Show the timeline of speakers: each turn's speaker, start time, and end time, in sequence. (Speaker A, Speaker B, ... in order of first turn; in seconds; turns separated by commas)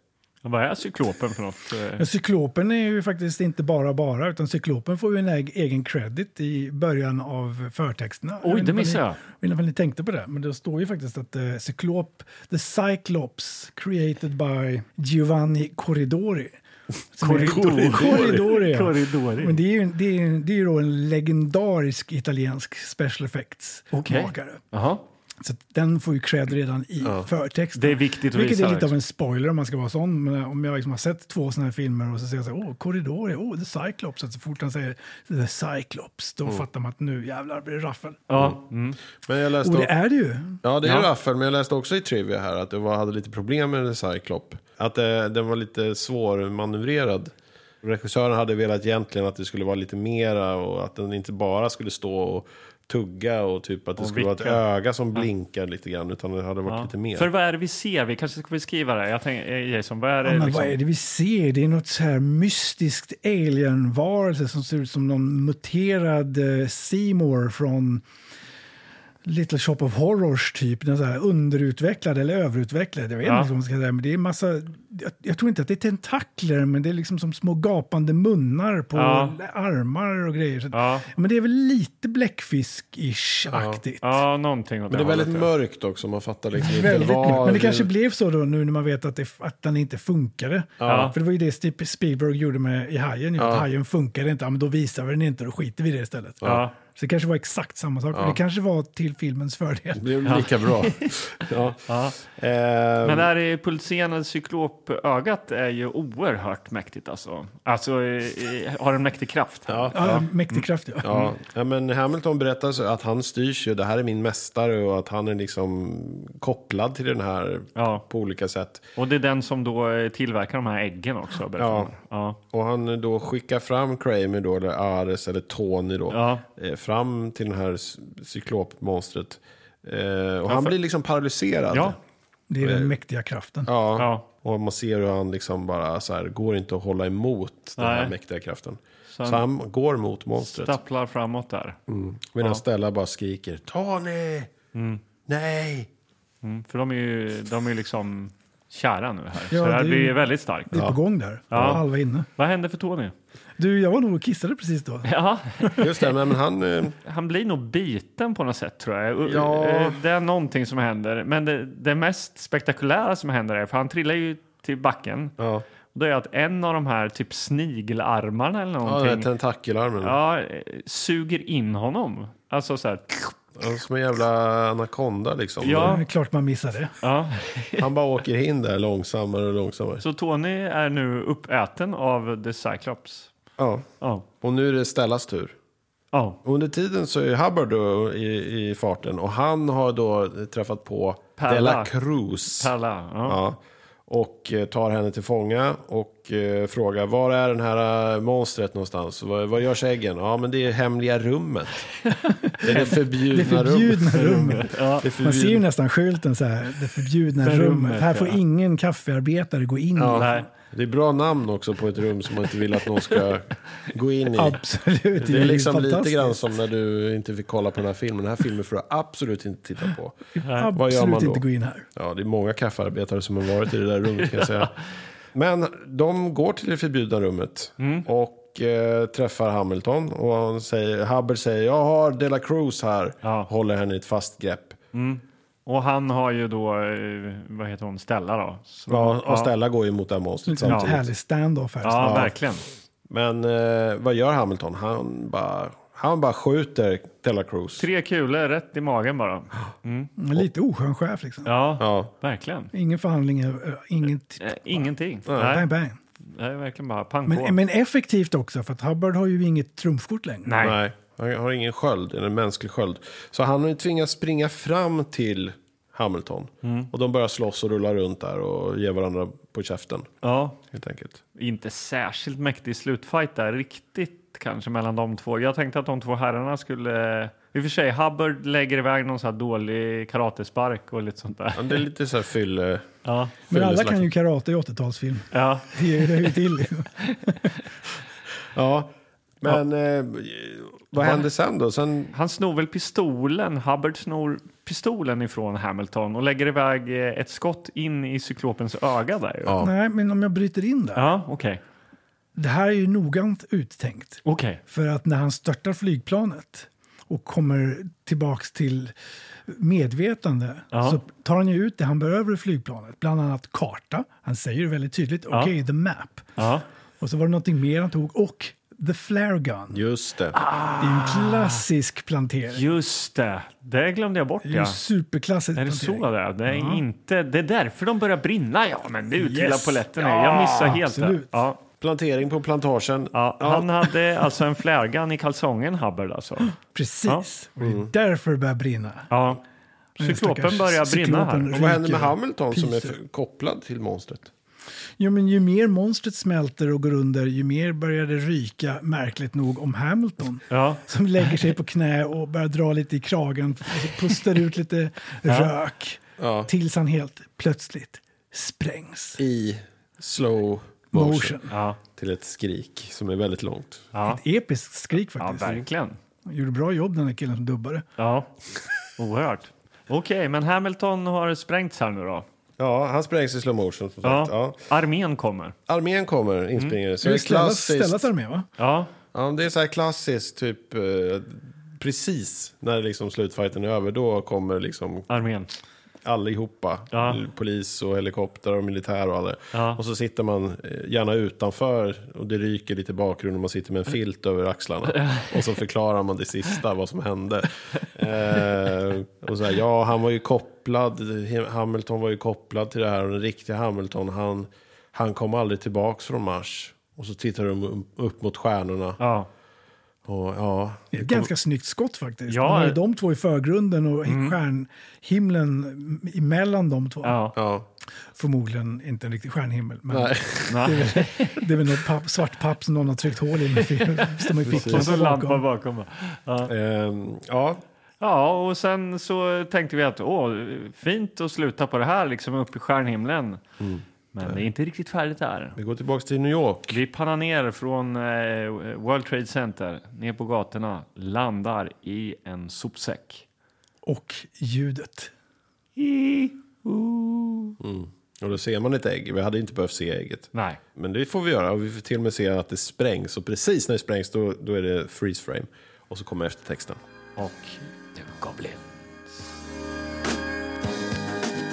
Speaker A: 0.4-2.0, Speaker B: 2.0-16.6, Speaker A: 8.4-9.2, Speaker B: 17.1-24.6, Speaker A: 17.2-19.6, Speaker C: 17.3-18.5, Speaker A: 23.9-25.0, Speaker B: 25.4-38.3, Speaker A: 27.8-28.9, Speaker A: 38.3-39.0, Speaker C: 39.2-39.9, Speaker B: 39.6-40.6, Speaker C: 40.6-57.3, Speaker A: 40.8-41.1, Speaker A: 54.0-54.6, Speaker A: 56.7-60.8, Speaker B: 60.2-68.0, Speaker B: 69.2-84.2, Speaker A: 73.2-73.5, Speaker A: 78.9-79.4, Speaker A: 80.7-81.1, Speaker C: 83.5-83.8, Speaker A: 84.0-85.5, Speaker C: 84.9-87.9, Speaker B: 86.5-100.4, Speaker C: 90.8-91.2, Speaker A: 90.8-91.2, Speaker C: 93.4-93.7, Speaker A: 96.4-96.8, Speaker C: 100.0-103.3, Speaker A: 100.2-101.1, Speaker A: 101.9-102.2, Speaker A: 103.0-111.3, Speaker C: 109.7-110.1, Speaker B: 109.9-111.3, Speaker C: 111.0-118.8, Speaker A: 117.8-118.0, Speaker A: 119.0-122.4, Speaker C: 121.6-121.9, Speaker C: 122.5-132.0, Speaker A: 126.1-126.4, Speaker A: 130.5-130.8, Speaker A: 131.7-132.0, Speaker B: 132.5-133.7, Speaker C: 132.6-132.9, Speaker C: 133.7-140.8, Speaker A: 134.0-134.3, Speaker A: 137.8-138.1, Speaker A: 139.1-139.4, Speaker A: 140.4-141.8, Speaker C: 141.9-144.5, Speaker A: 144.7-145.0, Speaker C: 145.3-145.9, Speaker A: 146.4-150.8, Speaker B: 149.5-152.3, Speaker C: 150.7-151.0, Speaker A: 151.5-151.8, Speaker C: 151.5-151.8, Speaker A: 152.4-153.1, Speaker B: 153.6-155.8, Speaker A: 155.1-156.0, Speaker C: 155.8-156.9, Speaker A: 157.0-165.3, Speaker C: 159.2-160.0, Speaker C: 165.4-165.7, Speaker A: 165.9-169.3, Speaker C: 168.8-170.2, Speaker A: 170.0-173.3, Speaker C: 173.6-176.0, Speaker A: 175.6-176.0, Speaker B: 175.7-176.9, Speaker A: 177.0-177.9, Speaker C: 177.8-180.0, Speaker A: 180.0-183.3, Speaker C: 183.6-183.9, Speaker A: 184.0-184.3, Speaker C: 184.4-185.6, Speaker A: 186.1-186.4, Speaker C: 186.4-192.7, Speaker A: 191.4-191.9, Speaker A: 192.5-193.4, Speaker C: 193.3-202.0, Speaker C: 202.6-205.6, Speaker B: 202.7-210.5, Speaker A: 204.4-205.1, Speaker A: 207.4-208.4, Speaker C: 210.0-214.6, Speaker A: 210.2-210.5, Speaker B: 214.3-216.4, Speaker C: 215.2-221.4, Speaker A: 220.4-220.7, Speaker B: 220.4-221.9, Speaker C: 221.9-224.8, Speaker C: 225.3-234.8, Speaker A: 227.8-228.1, Speaker A: 233.2-233.5, Speaker A: 234.9-239.5, Speaker C: 238.9-241.1, Speaker B: 240.5-242.3, Speaker A: 240.7-240.9, Speaker A: 241.8-242.6, Speaker C: 242.0-242.3, Speaker C: 243.1-247.8, Speaker A: 247.8-250.1, Speaker B: 250.2-251.5, Speaker A: 251.4-252.7, Speaker C: 251.8-252.1, Speaker B: 252.7-256.0, Speaker A: 254.4-255.7, Speaker C: 255.3-255.6, Speaker A: 256.3-257.6, Speaker B: 257.3-260.6, Speaker A: 260.5-260.8, Speaker C: 260.6-270.1, Speaker A: 266.6-266.9, Speaker A: 270.2-270.6, Speaker C: 270.7-271.2, Speaker A: 271.4-281.8, Speaker C: 281.6-282.9, Speaker A: 283.1-283.4, Speaker C: 283.5-284.1, Speaker B: 283.5-287.5, Speaker A: 285.3-287.2, Speaker C: 288.6-292.1, Speaker A: 291.0-291.2, Speaker A: 292.1-299.6, Speaker C: 299.5-299.7, Speaker B: 299.6-301.1, Speaker A: 300.9-301.6, Speaker B: 302.4-308.9, Speaker A: 304.2-304.6, Speaker B: 309.5-316.4, Speaker A: 310.7-311.0, Speaker A: 316.4-316.6, Speaker B: 317.0-319.8, Speaker C: 319.7-320.4, Speaker A: 320.4-321.6, Speaker B: 320.8-322.7, Speaker A: 322.5-324.8, Speaker B: 324.4-326.8, Speaker A: 325.6-331.6, Speaker B: 329.1-331.4, Speaker C: 331.8-333.9, Speaker A: 333.1-336.5, Speaker B: 336.6-339.1, Speaker C: 337.6-337.9, Speaker A: 339.1-339.4, Speaker B: 340.0-343.0, Speaker A: 340.0-341.5, Speaker C: 341.5-344.3, Speaker B: 345.0-359.2, Speaker A: 350.5-351.3, Speaker A: 355.3-355.5, Speaker C: 356.2-356.5, Speaker C: 359.2-361.4, Speaker B: 360.9-361.5, Speaker A: 361.5-361.8, Speaker C: 362.0-363.9, Speaker A: 363.9-364.2, Speaker B: 364.0-365.6, Speaker A: 365.2-366.0, Speaker B: 366.2-367.9, Speaker A: 368.0-368.3, Speaker A: 369.0-372.2, Speaker C: 372.6-374.6, Speaker A: 374.0-375.6, Speaker C: 375.7-378.1, Speaker B: 377.0-378.5, Speaker A: 378.6-378.9, Speaker C: 379.1-385.1, Speaker A: 385.1-385.5, Speaker C: 386.0-409.0, Speaker A: 386.9-387.2, Speaker A: 389.5-389.8, Speaker A: 394.9-395.3, Speaker A: 409.0-409.3, Speaker C: 410.1-411.3, Speaker B: 410.9-417.2, Speaker A: 412.3-412.8, Speaker A: 414.1-414.4, Speaker A: 417.0-417.4, Speaker C: 417.4-417.7, Speaker B: 418.1-425.4, Speaker C: 419.9-420.8, Speaker A: 420.5-421.4, Speaker A: 424.2-426.5, Speaker C: 424.5-425.0, Speaker C: 426.5-427.6, Speaker A: 428.0-433.4, Speaker C: 433.6-434.4, Speaker A: 434.1-435.6, Speaker C: 435.6-436.8, Speaker A: 436.7-443.2, Speaker B: 443.8-445.1, Speaker A: 445.8-447.6, Speaker C: 447.6-456.8, Speaker A: 450.3-450.6, Speaker A: 457.2-458.6